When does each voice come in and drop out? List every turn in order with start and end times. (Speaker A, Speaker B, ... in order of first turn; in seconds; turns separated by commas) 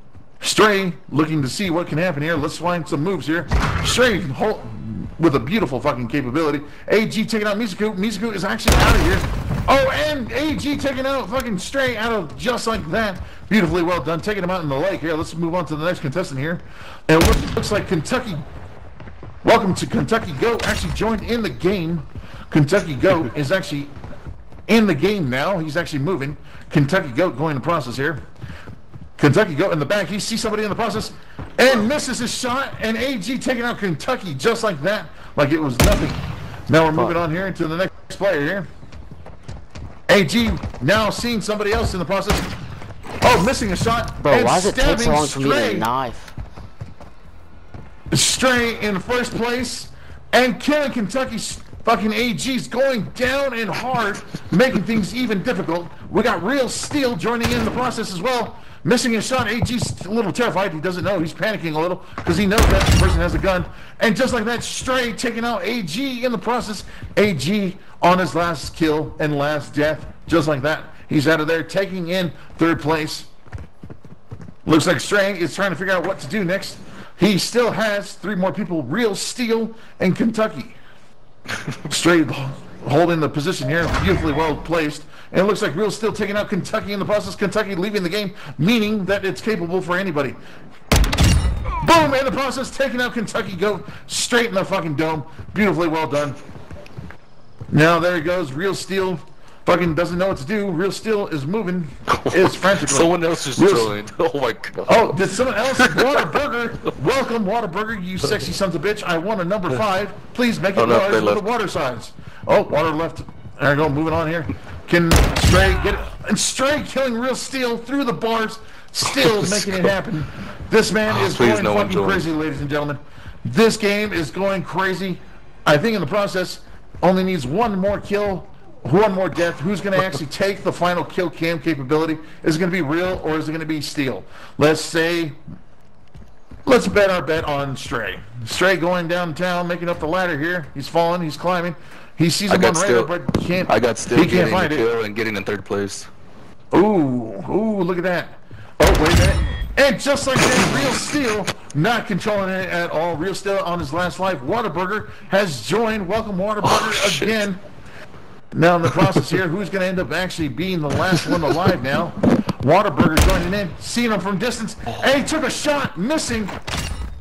Speaker A: 0.4-18.4, Speaker A: 19.4-23.9, Speaker A: 24.7-28.2, Speaker A: 29.2-38.7, Speaker A: 40.1-42.5, Speaker A: 43.2-45.9, Speaker B: 44.2-46.3, Speaker A: 48.1-73.3, Speaker A: 74.7-80.8, Speaker A: 81.9-90.4, Speaker A: 91.8-96.4, Speaker A: 97.7-104.0, Speaker C: 102.2-105.2, Speaker A: 104.9-135.4, Speaker C: 105.7-106.1, Speaker C: 110.8-111.5, Speaker C: 119.1-119.9, Speaker C: 121.1-122.2, Speaker A: 136.7-144.9, Speaker C: 142.5-143.1, Speaker C: 143.7-146.1, Speaker A: 146.7-157.6, Speaker C: 156.6-157.4, Speaker A: 158.5-166.5, Speaker C: 159.0-159.3